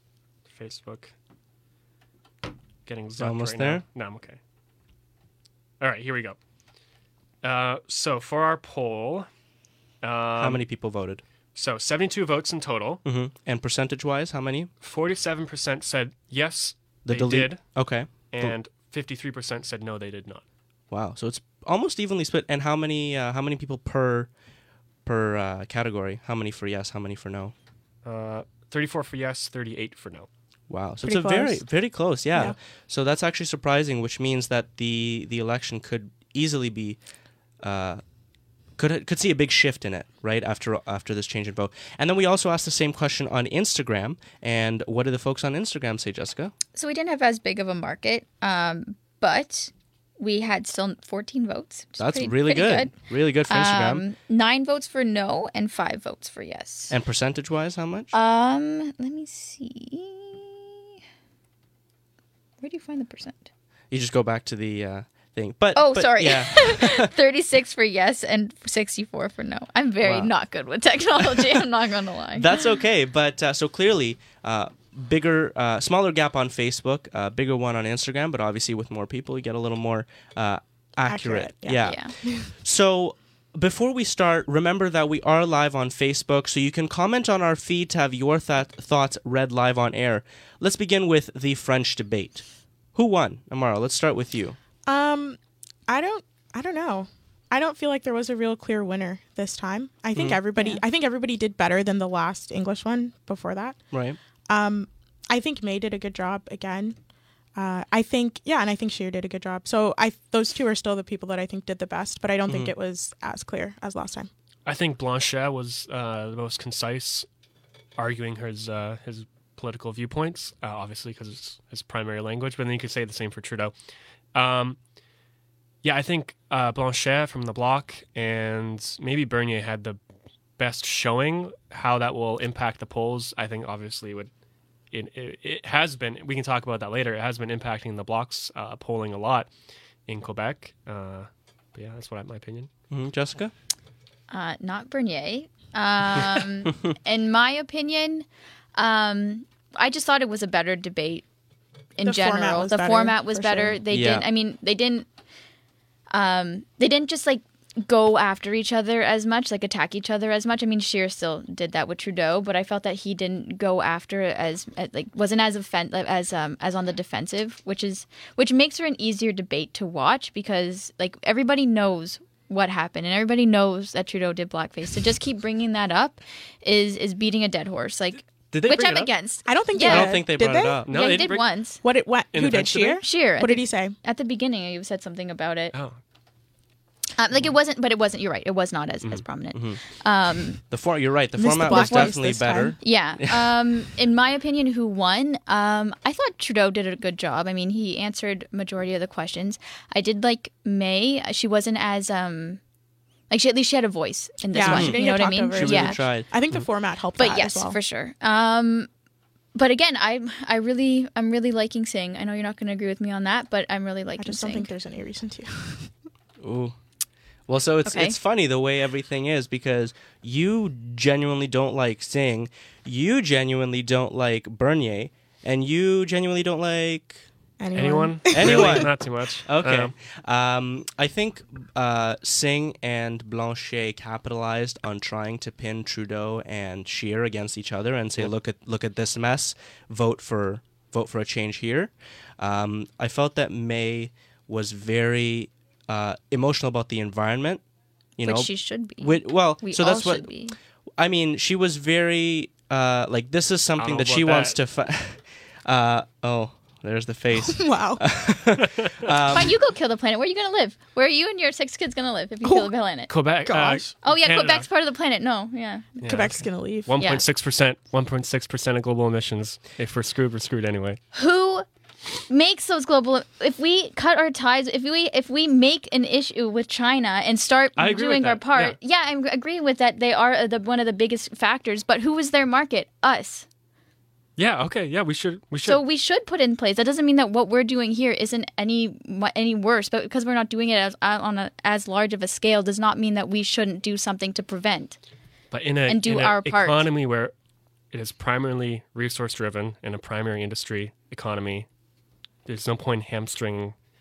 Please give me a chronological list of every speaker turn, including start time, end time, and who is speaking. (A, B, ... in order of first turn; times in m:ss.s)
0:00.5-0:01.1 A
0:02.9-0:04.4 A
0:03.2-0:03.8 B
0:05.8-0:06.4 A
0:07.4-0:09.3 A
0:10.0-0:10.6 A
0:10.4-0:11.2 B
0:11.6-0:13.0 A
0:13.0-0:14.7 B
0:14.8-0:17.6 A
0:17.0-0:18.6 B
0:18.3-0:20.4 A
0:20.9-0:24.3 B
0:25.1-0:27.5 B
0:28.0-0:30.3 A
0:30.7-0:37.0 B
0:31.0-0:31.6 C
0:37.6-0:38.0 B
0:38.8-0:46.5 B
0:46.7-0:52.9 D
0:52.0-0:54.0 B
0:53.5-0:57.0 D
0:56.9-0:58.1 B
0:58.1-1:00.8 D
1:02.6-1:03.5 D
1:03.9-1:07.1 B
1:05.8-1:12.6 D
1:10.0-1:10.3 B
1:12.4-1:34.6 B
1:21.1-1:22.5 C
1:21.8-1:22.1 D
1:34.9-1:43.8 C
1:40.6-1:40.8 D
1:43.9-1:44.2 B
1:44.5-1:47.0 C
1:47.6-1:54.3 C
1:54.7-1:57.3 A
1:58.0-2:03.7 A
2:04.4-2:04.8 A
2:05.8-2:10.0 A
2:10.6-2:14.3 A
2:14.9-2:19.5 A
2:20.1-2:22.7 A
2:22.9-2:23.5 B
2:24.3-2:31.2 D
2:32.0-2:35.1 D
2:32.0-2:33.8 C
2:33.9-2:34.3 B
2:36.1-3:00.2 D
2:58.5-2:59.1 A
2:59.5-3:00.8 C
2:59.8-3:00.9 B
3:00.9-3:01.5 A
3:00.9-3:01.8 D
3:01.8-3:04.0 C
3:02.3-3:03.0 A
3:03.0-3:05.7 D
3:07.2-3:10.6 D
3:09.5-3:09.8 B
3:10.7-3:13.6 B
3:11.4-3:12.8 C
3:11.6-3:12.2 D
3:12.8-3:22.6 D
3:23.3-3:26.0 D
3:24.5-3:27.8 C
3:24.6-3:26.3 B
3:27.2-3:28.9 D
3:29.5-3:34.7 D
3:34.2-3:35.9 C
3:36.4-3:36.8 B
3:37.5-3:47.2 B
3:37.9-3:38.2 D
3:47.6-3:48.9 C
3:47.8-3:49.9 A
3:48.3-3:48.9 B
3:49.4-4:07.6 B
4:08.2-4:10.3 B
4:08.2-4:10.6 D
4:11.0-4:19.6 B
4:13.8-4:14.6 A
4:17.4-4:18.0 C
4:18.6-4:19.0 A
4:19.3-4:23.1 D
4:22.4-4:22.7 C
4:23.1-4:24.7 A
4:23.4-4:23.8 C
4:24.0-4:26.0 D
4:26.0-4:31.0 A
4:26.0-4:26.9 C
4:27.0-4:27.2 D
4:31.1-4:31.7 D
4:32.3-4:43.5 D
4:37.8-4:38.8 A
4:44.4-4:45.8 A
4:45.6-4:55.0 D
4:55.5-4:57.3 A
4:55.9-4:56.9 D
4:57.9-5:01.7 A
5:02.5-5:03.7 A